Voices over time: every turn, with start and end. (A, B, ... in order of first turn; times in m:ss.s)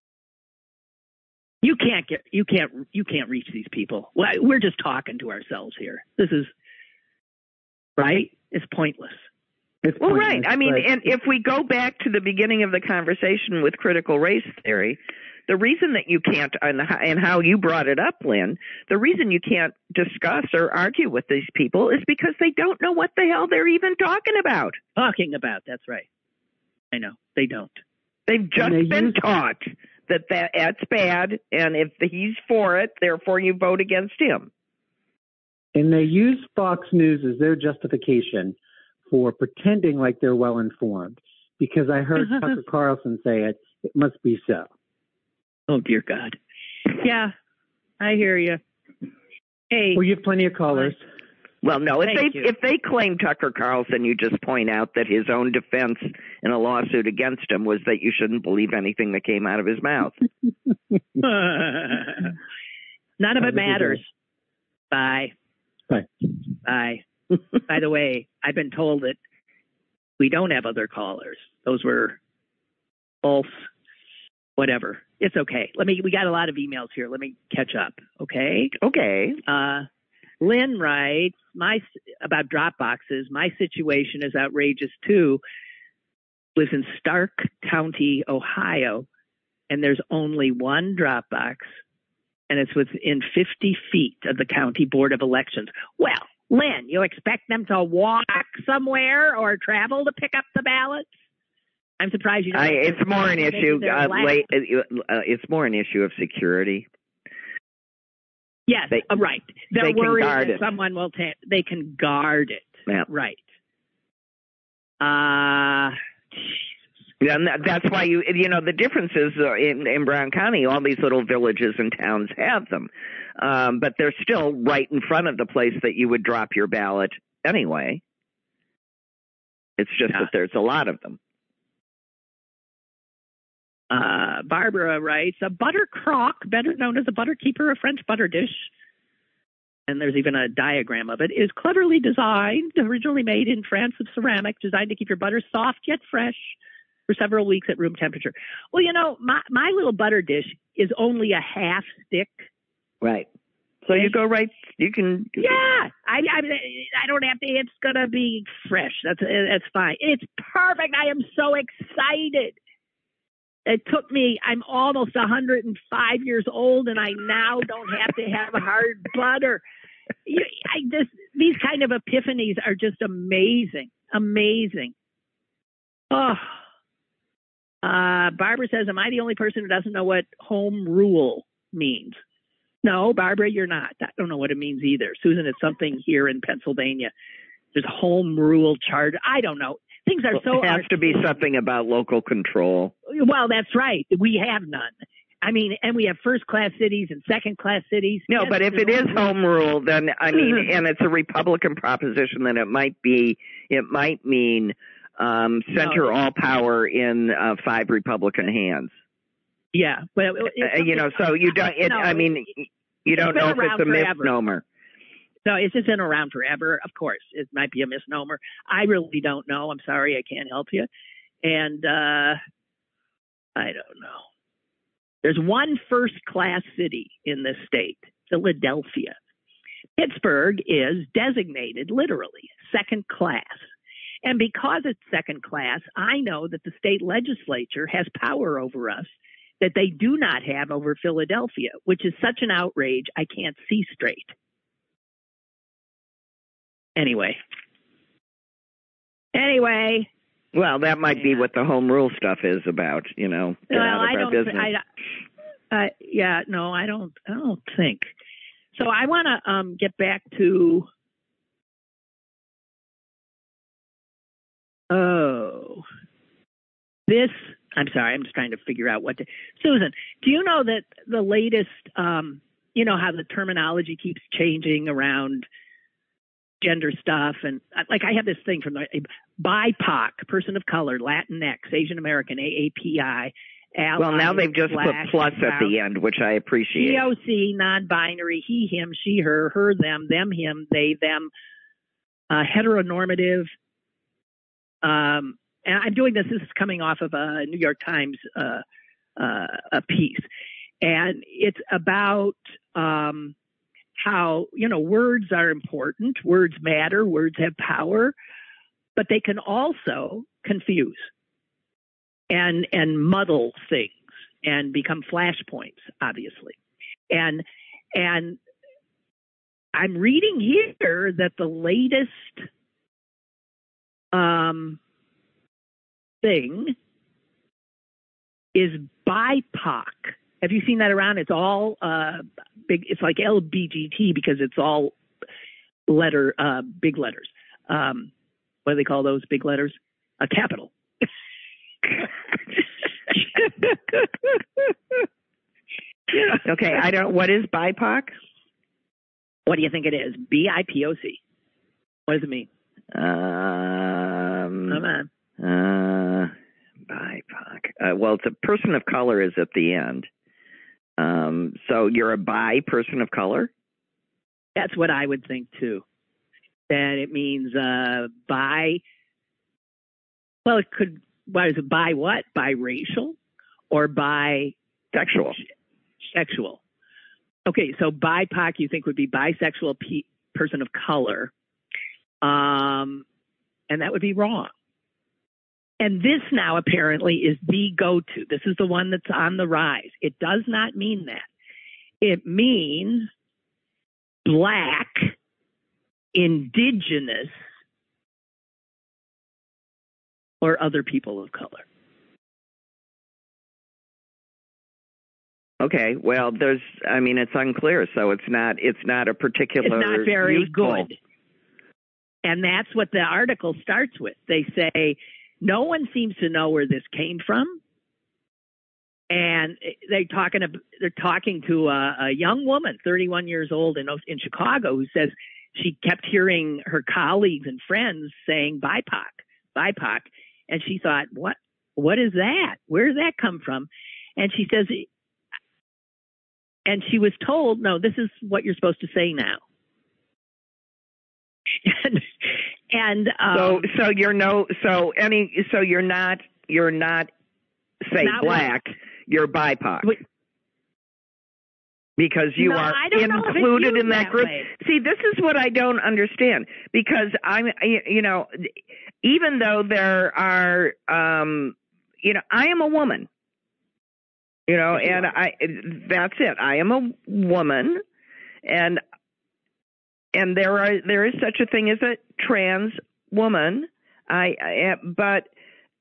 0:01.6-0:06.5 A
0:08.0-0:09.2 A
0:09.8-0:10.9 B
0:10.0-0:24.8 C
0:25.0-0:26.0 A
0:26.9-0:27.8 A
0:28.3-0:34.5 C
0:28.6-0:29.2 B
0:35.7-0:38.6 B
0:39.1-0:44.7 B
0:45.7-0:46.4 A
0:46.9-0:47.3 A
0:48.0-0:48.6 A
0:49.7-0:50.0 A
0:49.9-0:51.0 B
0:50.7-0:51.0 A
0:51.6-1:00.1 C
0:52.0-0:52.5 A
1:01.2-1:02.3 A
1:03.2-1:04.1 A
1:03.4-1:04.0 B
1:04.9-1:05.3 A
1:06.6-1:07.0 A
1:07.7-1:09.2 A
1:10.2-1:12.2 A
1:13.2-1:13.7 A
1:14.6-1:18.7 A
1:18.8-1:19.4 C
1:19.4-1:19.8 A
1:20.4-1:25.4 A
1:26.6-1:29.1 A
1:29.7-1:31.7 A
1:32.5-1:41.1 A
1:42.0-1:44.4 A
1:42.5-1:46.9 C
1:48.7-1:53.4 A
1:49.8-1:50.6 C
1:55.0-1:56.6 A
1:57.2-2:08.0 C
2:09.8-2:11.2 C
2:13.9-2:18.7 A
2:19.9-2:26.6 A
2:27.1-2:32.4 A
2:33.0-2:33.3 C
2:33.8-2:35.6 C
2:35.4-2:42.6 A
2:43.6-2:49.6 A
2:50.2-2:54.9 A
2:56.1-2:56.6 A
2:57.8-3:02.2 A
3:02.8-3:07.1 A
3:07.7-3:11.3 A
3:10.3-3:12.9 C
3:13.1-3:19.3 A
3:18.3-3:28.9 C
3:25.8-3:26.1 A
3:29.7-3:32.4 A
3:30.6-3:34.6 C
3:33.1-3:34.3 A
3:35.4-3:40.9 A
3:41.4-3:42.4 A
3:43.6-3:44.2 A
3:45.2-3:49.2 A
3:50.0-3:53.6 A
3:54.2-4:04.3 A
4:07.0-4:07.4 A
4:09.3-4:10.1 A
4:10.5-4:14.7 C
4:11.1-4:11.4 A
4:13.7-4:14.8 A
4:15.7-4:18.1 A
4:18.8-4:20.9 A
4:24.9-4:25.8 A
4:27.1-4:35.4 A
4:36.6-4:45.7 A
4:44.0-4:47.0 C
4:46.8-4:51.3 A
4:52.3-4:53.5 A
4:54.8-4:58.6 A
4:59.2-5:00.3 A
5:00.8-5:03.3 A
5:04.0-5:08.1 A
5:09.0-5:11.1 A
5:12.3-5:16.6 A
5:17.1-5:18.4 A
5:19.7-5:22.5 A
5:24.1-5:24.8 A
5:26.2-5:26.7 A
5:28.5-5:35.0 A
5:35.9-5:38.1 A
5:38.6-5:41.0 A
5:43.3-5:44.0 A
5:46.4-5:48.1 C
5:49.4-5:51.2 A
5:52.1-5:52.5 A
5:52.9-5:54.8 C
5:54.7-5:55.1 A
5:55.4-5:56.3 C
5:56.9-6:00.1 C
6:01.0-6:03.5 C
6:04.6-6:05.8 A
6:06.7-6:08.8 A
6:10.4-6:13.2 A
6:13.7-6:14.5 A
6:14.9-6:15.4 C
6:15.1-6:15.4 A
6:16.1-6:16.6 A
6:17.4-6:21.3 A
6:22.2-6:23.0 A
6:23.7-6:24.5 A
6:25.8-6:31.3 A
6:32.0-6:33.1 A
6:34.2-6:35.1 A
6:36.1-6:37.3 A
6:40.4-6:41.6 A
6:45.6-6:50.9 C
6:49.6-6:51.0 A
6:52.2-6:57.6 A
6:59.1-7:14.9 A
7:16.6-7:19.4 A
7:21.6-7:23.7 A
7:23.3-7:27.1 C
7:27.8-7:29.9 C
7:28.0-7:28.5 A
7:32.0-7:43.1 C
7:32.4-7:34.5 A
7:44.5-7:47.8 C
7:48.4-7:48.8 C
7:50.1-7:55.3 C